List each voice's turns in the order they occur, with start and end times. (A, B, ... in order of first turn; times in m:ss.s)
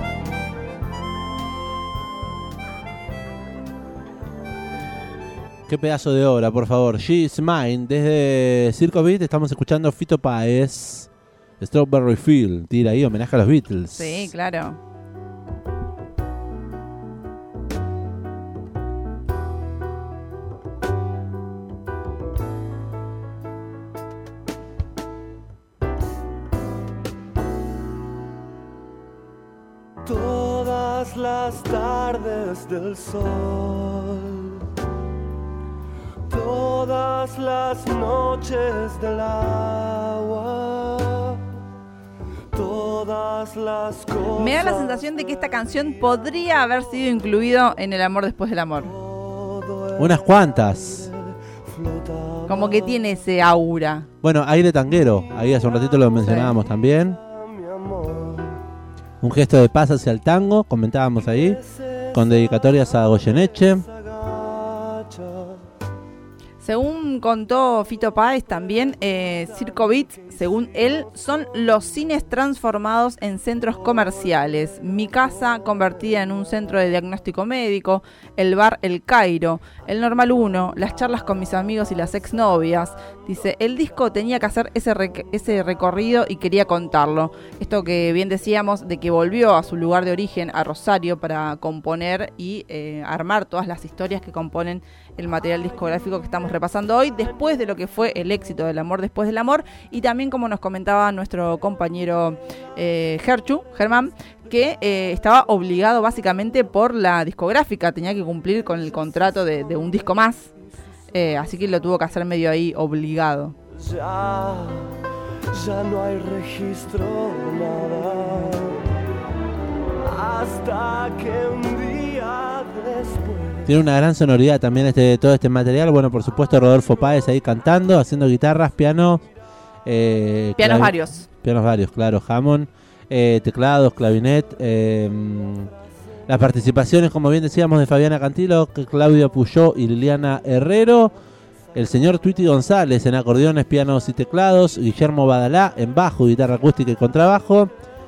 0:05.7-0:14.3 A
0:13.9-0:14.8 B
0:30.0-0:34.6 C
0:36.3-0:41.5 C
0:42.5-0:46.0 C
0:44.4-0:48.9 B
0:48.9-0:53.1 C
0:50.0-0:51.1 A
0:52.5-0:54.1 B
0:54.2-0:57.2 A
0:55.3-0:56.0 C
0:56.2-0:56.5 B
0:57.1-0:58.6 C
0:59.2-1:01.6 A
1:01.3-1:05.6 C
1:02.1-1:03.9 A
1:06.6-1:50.5 B
1:51.1-1:53.6 B
1:53.7-1:55.0 C
1:55.5-1:58.9 C
2:00.0-2:03.7 C
2:03.6-2:09.2 A
2:09.8-2:15.7 A
2:10.6-2:11.3 B
2:16.3-2:21.1 A
2:21.7-2:27.7 A